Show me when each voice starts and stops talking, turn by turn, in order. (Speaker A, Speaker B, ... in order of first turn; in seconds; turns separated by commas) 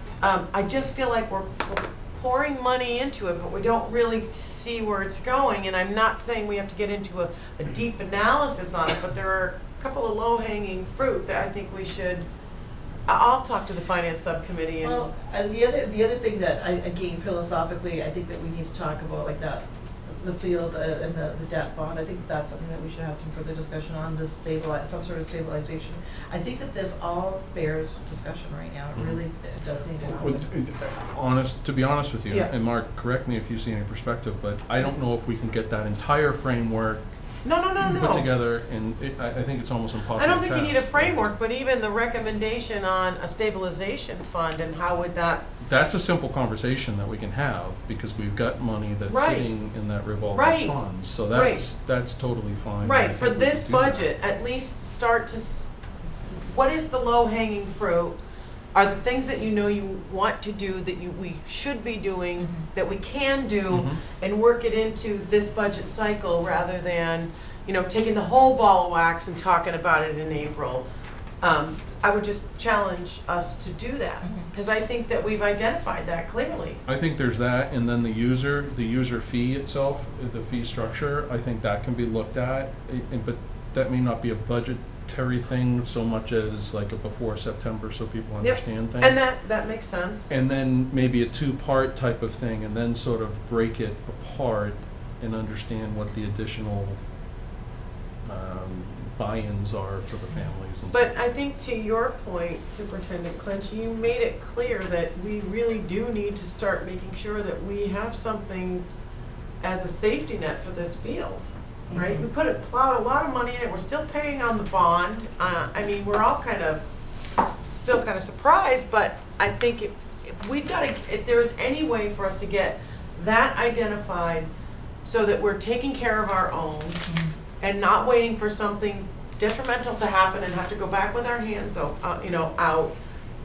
Speaker A: 0.2-12.3, Speaker A: 13.1-15.1, Speaker B: 14.8-30.5, Speaker C: 28.9-29.2, Speaker C: 30.0-37.0, Speaker A: 37.4-38.3, Speaker C: 37.8-41.2, Speaker A: 40.1-45.5, Speaker C: 45.6-54.1, Speaker A: 49.1-49.5, Speaker A: 50.3-51.6, Speaker A: 52.8-55.7, Speaker A: 56.3-58.2, Speaker A: 58.7-70.9, Speaker B: 62.4-62.7, Speaker C: 63.7-64.0, Speaker A: 71.4-76.8, Speaker B: 74.2-74.5, Speaker C: 76.8-89.2, Speaker A: 88.4-90.3, Speaker C: 90.3-97.0, Speaker C: 98.2-101.0, Speaker A: 100.9-108.8, Speaker A: 109.6-116.8, Speaker B: 111.9-112.2, Speaker A: 117.6-124.5, Speaker A: 125.0-127.0, Speaker B: 127.1-127.3, Speaker A: 127.6-132.9